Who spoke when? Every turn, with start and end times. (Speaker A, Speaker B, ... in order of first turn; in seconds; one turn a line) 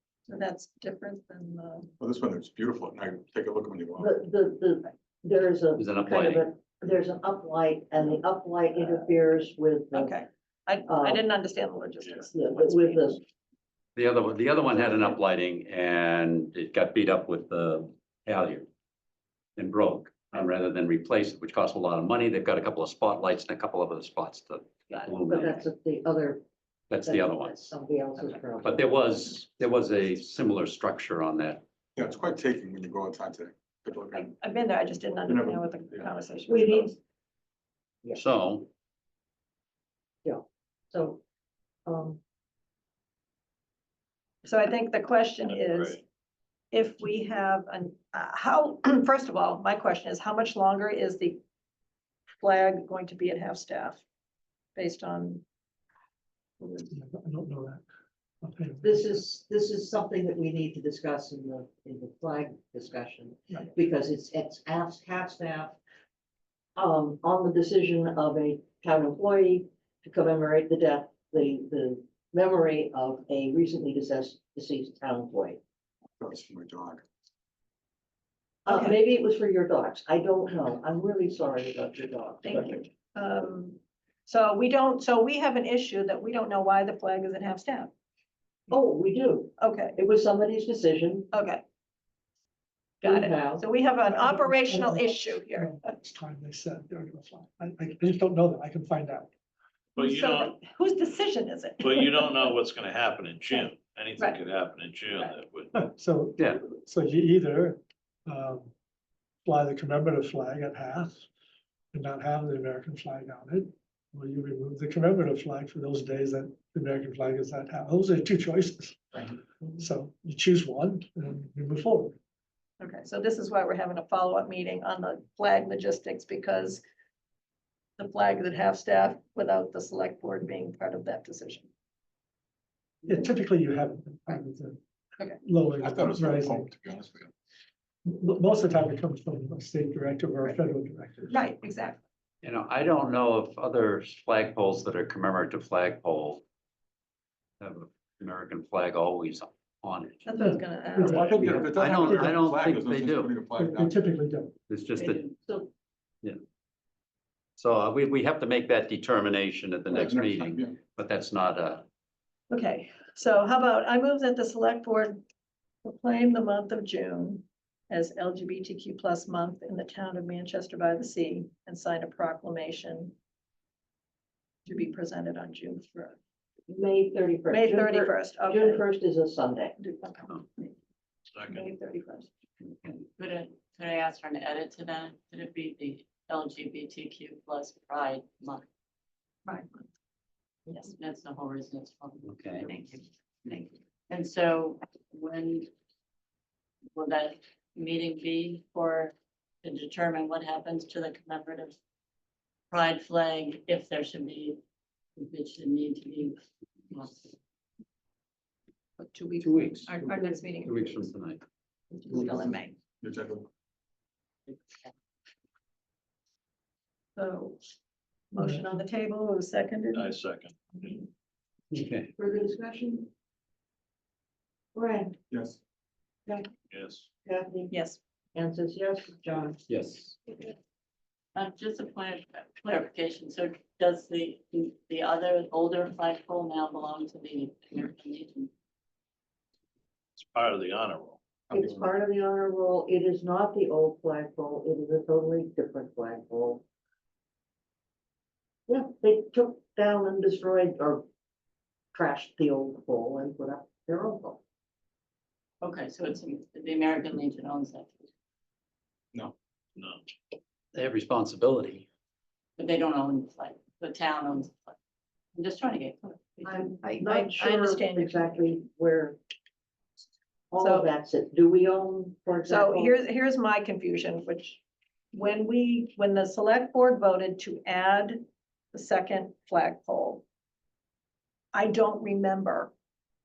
Speaker A: 0.3-1.9
Speaker B: 2.0-4.1
Speaker C: 4.0-10.2
Speaker D: 5.8-6.5
Speaker A: 9.9-13.1
Speaker C: 10.9-11.2
Speaker C: 12.3-13.2
Speaker D: 14.0-18.7
Speaker D: 19.6-25.6
Speaker C: 25.3-26.4
Speaker D: 26.9-27.7
Speaker C: 27.1-28.8
Speaker D: 28.6-31.6
Speaker B: 32.0-34.3
Speaker A: 34.1-37.0
Speaker B: 35.3-36.9
Speaker C: 36.5-36.9
Speaker D: 38.1-38.7
Speaker C: 40.2-41.2
Speaker C: 41.9-42.2
Speaker A: 44.4-46.0
Speaker E: 45.5-46.0
Speaker A: 46.7-51.4
Speaker A: 52.4-54.0
Speaker A: 54.8-55.4
Speaker F: 56.8-57.8
Speaker F: 58.4-59.2
Speaker C: 58.8-65.8
Speaker C: 66.8-75.6
Speaker B: 76.2-77.0
Speaker C: 78.7-82.8
Speaker A: 78.7-79.0
Speaker A: 82.4-87.9
Speaker C: 88.7-91.3
Speaker A: 89.6-90.0
Speaker A: 91.3-91.6
Speaker A: 93.0-95.8
Speaker C: 93.0-93.7
Speaker F: 94.1-99.3
Speaker E: 100.0-100.6
Speaker A: 100.0-102.5
Speaker E: 101.8-105.9
Speaker F: 105.7-108.7
Speaker D: 106.4-106.7
Speaker F: 109.5-111.2
Speaker F: 111.9-122.2
Speaker A: 122.8-126.8
Speaker A: 128.0-131.7
Speaker F: 133.1-136.7
Speaker B: 135.8-137.3
Speaker F: 138.1-141.5
Speaker A: 141.3-142.0
Speaker D: 142.4-146.4
Speaker D: 147.6-150.3
Speaker A: 150.3-151.7
Speaker F: 150.3-152.3
Speaker B: 151.1-154.0
Speaker D: 151.3-153.4
Speaker F: 153.6-154.6
Speaker D: 154.7-155.2
Speaker G: 155.0-155.3
Speaker D: 157.6-161.8
Speaker B: 159.9-160.8
Speaker A: 162.5-165.2
Speaker A: 165.8-173.2
Speaker A: 174.7-176.2
Speaker C: 176.7-179.8
Speaker A: 177.5-178.8
Speaker A: 179.8-180.8
Speaker E: 181.3-181.7
Speaker A: 181.5-182.3
Speaker D: 182.6-183.0
Speaker G: 183.2-188.7
Speaker A: 189.5-189.9
Speaker G: 190.8-195.7
Speaker D: 192.2-192.7
Speaker G: 196.9-201.8
Speaker G: 202.7-204.6
Speaker G: 205.2-206.4
Speaker G: 206.9-207.3
Speaker A: 209.0-211.0
Speaker D: 209.4-209.9
Speaker D: 210.6-211.4
Speaker A: 211.9-212.8
Speaker B: 212.1-213.5
Speaker G: 214.5-214.9
Speaker A: 217.2-217.6
Speaker A: 218.3-220.1
Speaker E: 219.9-220.9
Speaker D: 221.7-222.1
Speaker C: 222.2-223.1
Speaker C: 224.8-225.2
Speaker B: 225.3-225.6
Speaker E: 226.7-227.1
Speaker C: 227.2-227.7
Speaker A: 227.7-228.0
Speaker C: 228.3-229.6
Speaker D: 229.7-230.2
Speaker G: 231.3-238.5
Speaker E: 240.2-241.2
Speaker B: 241.5-241.8
Speaker C: 241.5-246.6
Speaker C: 248.7-251.1
Speaker C: 251.9-254.4
Speaker G: 255.6-258.1
Speaker E: 259.8-260.0
Speaker D: 260.7-261.9
Speaker G: 262.6-264.8
Speaker G: 265.4-266.7
Speaker C: 266.4-269.2
Speaker A: 266.8-268.6
Speaker C: 270.5-273.0
Speaker A: 270.6-270.9
Speaker A: 272.5-274.6
Speaker A: 275.1-280.2
Speaker A: 281.5-282.7